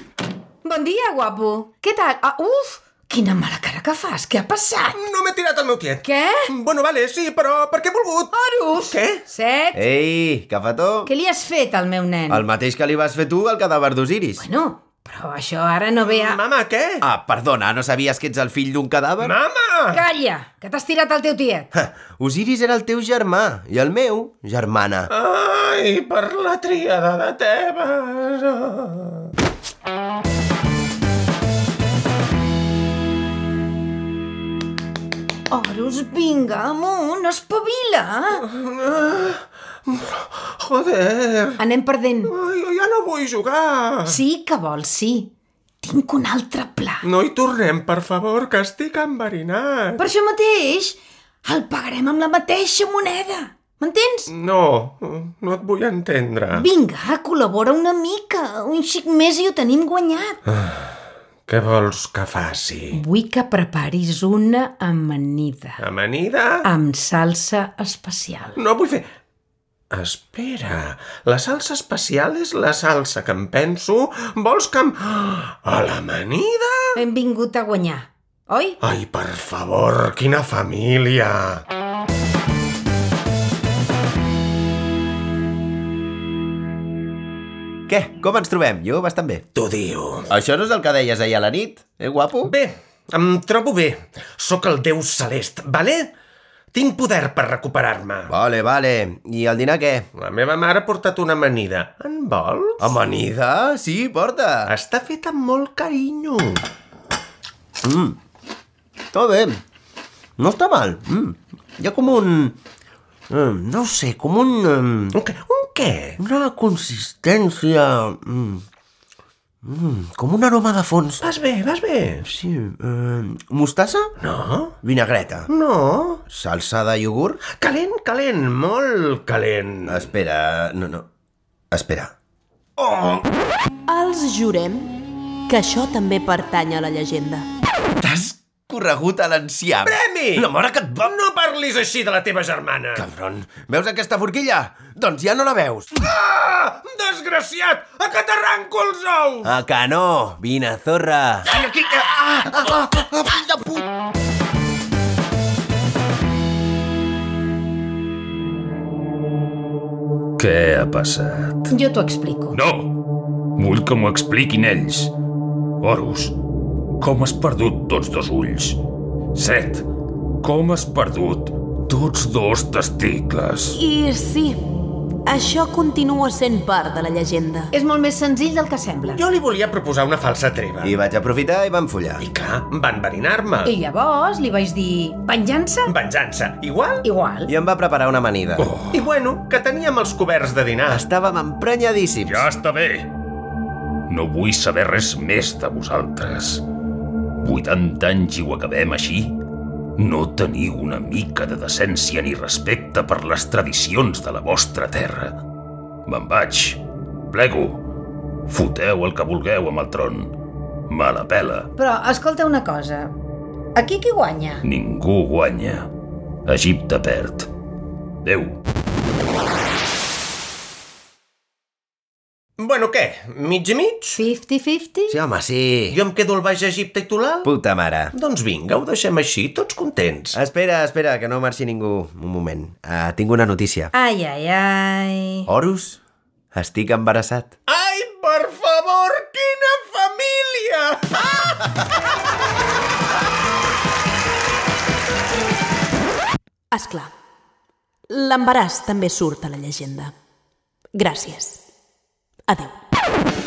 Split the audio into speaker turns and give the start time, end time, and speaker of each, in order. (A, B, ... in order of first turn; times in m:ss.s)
0:00.6-0:05.0 A
0:04.9-0:09.2 B
0:06.0-0:06.4 A
0:08.3-0:09.8 A
0:09.7-0:11.1 C
0:11.0-0:12.4 A
0:12.3-0:14.4 C
0:14.4-0:16.4 A
0:16.0-0:17.0 B
0:17.0-0:19.3 C
0:19.2-0:20.0 B
0:19.9-0:21.7 A
0:21.7-0:25.1 C
0:25.1-0:29.3 B
0:35.5-0:38.4 A
0:38.4-0:41.6 B
0:41.6-0:42.3 A
0:42.3-0:44.2 B
0:44.0-0:45.3 A
0:45.8-0:47.0 A
0:47.0-0:50.0 B
0:50.0-0:54.3 A
0:54.3-0:56.6 B
0:56.5-1:00.4 A
1:00.5-1:00.8 B
1:01.5-1:03.0 B
1:02.9-1:05.8 A
1:05.8-1:06.6 B
1:06.6-1:08.6 A
1:08.6-1:09.1 B
1:09.9-1:17.0 B
1:17.0-1:18.8 A
1:18.8-1:21.6 B
1:27.9-1:29.4 C
1:29.5-1:30.3 B
1:30.3-1:32.5 C
1:32.4-1:36.1 B
1:36.7-1:38.3 B
1:38.3-1:40.1 C
1:40.2-1:43.0 B
1:42.8-1:44.7 C
1:44.7-1:46.6 B
1:47.8-1:48.2 C
1:49.1-1:49.6 C
1:50.4-1:52.6 C
1:53.3-1:55.2 C
1:55.1-1:56.2 B
1:56.2-1:58.6 C
1:59.6-2:01.3 C
2:01.2-2:02.2 B
2:02.2-2:04.1 C
2:04.2-2:04.7 B
2:04.8-2:05.5 C
2:05.5-2:06.2 B
2:06.3-2:07.4 C
2:07.5-2:10.0 B
2:09.9-2:11.1 C
2:11.7-2:12.1 C
2:13.9-2:14.9 D
2:15.5-2:17.4 D
2:18.0-2:21.1 C
2:19.8-2:23.0 B
2:22.9-2:26.0 C
2:26.0-2:29.5 B
2:29.4-2:33.8 C
2:40.4-2:41.7 E
2:41.7-2:42.6 A
2:42.5-2:43.0 E
2:43.6-2:45.1 E
2:45.8-2:46.4 E
2:47.0-2:48.8 E
2:49.3-2:49.8 E
2:50.4-2:53.8 E
2:53.8-2:54.6 D
2:55.2-2:57.7 D
2:57.7-2:59.2 A
2:59.1-3:00.9 B
3:00.8-3:02.2 C
3:02.2-3:03.7 B
3:03.6-3:05.9 A
3:05.8-3:07.0 B
3:07.0-3:07.5 A
3:07.5-3:08.7 C
3:08.6-3:08.9 E
3:08.9-3:11.0 B
3:10.9-3:12.5 C
3:12.2-3:13.1 E
3:14.1-3:16.6 E
3:17.4-3:19.4 E
3:20.0-3:25.4 E
3:26.0-3:27.8 E
3:28.5-3:30.3 E
3:30.9-3:31.7 E
3:31.8-3:33.1 A
3:33.7-3:34.6 A
3:34.6-3:35.9 E
3:36.5-3:37.5 E
3:38.2-3:38.6 E
3:42.6-3:44.2 B
3:44.2-3:45.2 A
3:45.1-3:46.0 C
3:45.9-3:47.5 B
3:47.4-3:48.1 C
3:48.1-3:50.3 B
3:50.3-3:53.9 C
3:53.9-3:55.5 A
3:55.5-3:56.0 C
3:56.5-3:57.5 C
3:57.7-4:01.5 B
4:06.7-4:07.1 D
4:08.1-4:10.1 D
4:11.0-4:11.6 D
4:12.5-4:12.8 D